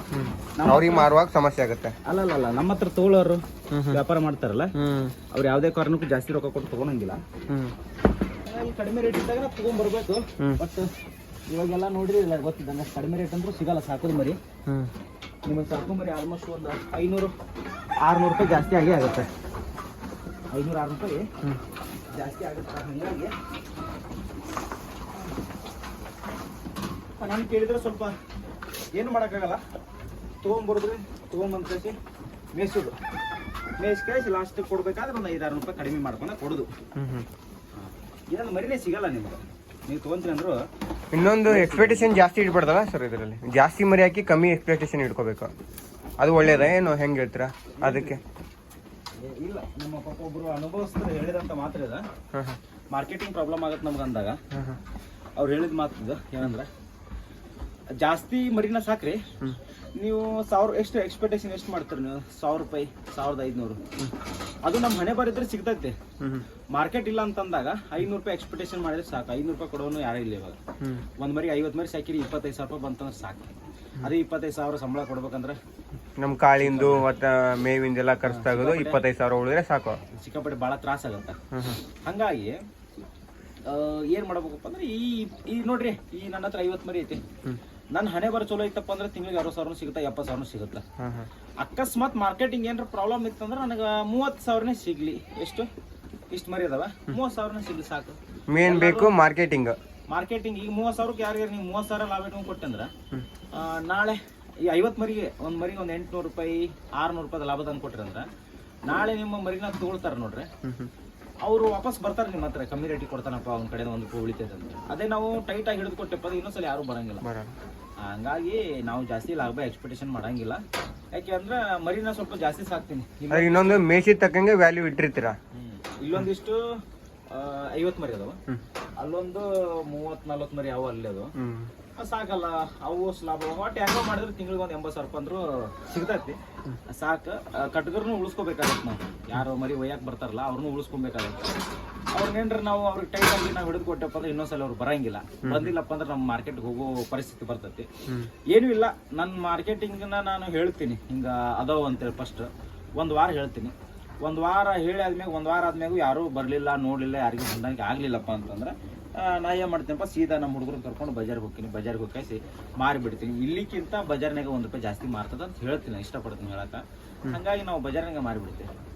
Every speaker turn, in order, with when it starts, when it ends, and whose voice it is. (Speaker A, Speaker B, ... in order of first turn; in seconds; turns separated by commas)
Speaker A: 0.1-1.9, Speaker B: 0.6-1.1, Speaker B: 2.0-4.7, Speaker A: 3.7-4.0, Speaker A: 4.8-5.2, Speaker B: 5.3-7.2, Speaker A: 7.5-7.8, Speaker B: 8.4-10.9, Speaker B: 11.5-14.4, Speaker A: 14.7-14.9, Speaker B: 15.4-17.3, Speaker B: 18.0-19.3, Speaker B: 20.5-21.3, Speaker B: 22.1-23.3, Speaker B: 27.2-28.2, Speaker B: 28.9-29.6, Speaker B: 30.4-32.0, Speaker B: 32.5-33.0, Speaker B: 33.8-36.7, Speaker A: 37.0-37.3, Speaker B: 37.8-40.6, Speaker A: 41.1-45.5, Speaker B: 41.4-42.2, Speaker A: 46.2-48.2, Speaker B: 46.4-46.7, Speaker B: 47.8-48.2, Speaker B: 49.2-52.0, Speaker B: 52.9-54.4, Speaker A: 54.5-54.8, Speaker B: 55.4-56.7, Speaker B: 58.0-59.3, Speaker B: 60.0-63.8, Speaker B: 64.7-66.0, Speaker B: 66.7-70.6, Speaker B: 71.2-75.6, Speaker A: 76.2-80.0, Speaker B: 76.6-77.1, Speaker B: 78.3-79.0, Speaker B: 80.1-81.4, Speaker A: 81.5-81.8, Speaker B: 82.0-82.6, Speaker B: 83.6-87.2, Speaker B: 87.9-90.8, Speaker A: 91.0-91.3, Speaker B: 91.6-95.7, Speaker B: 96.3-99.2, Speaker A: 98.5-99.8, Speaker B: 100.1-102.9, Speaker B: 103.5-108.3, Speaker B: 108.9-110.5, Speaker A: 110.6-110.9, Speaker B: 111.5-117.2, Speaker A: 117.2-117.5, Speaker B: 118.0-120.6, Speaker B: 121.1-123.8, Speaker A: 123.3-125.4, Speaker B: 125.5-126.8, Speaker B: 127.3-128.4, Speaker B: 129.0-131.3, Speaker A: 131.4-131.7, Speaker B: 132.0-141.6, Speaker B: 142.2-147.9, Speaker A: 145.4-145.7, Speaker B: 148.5-168.7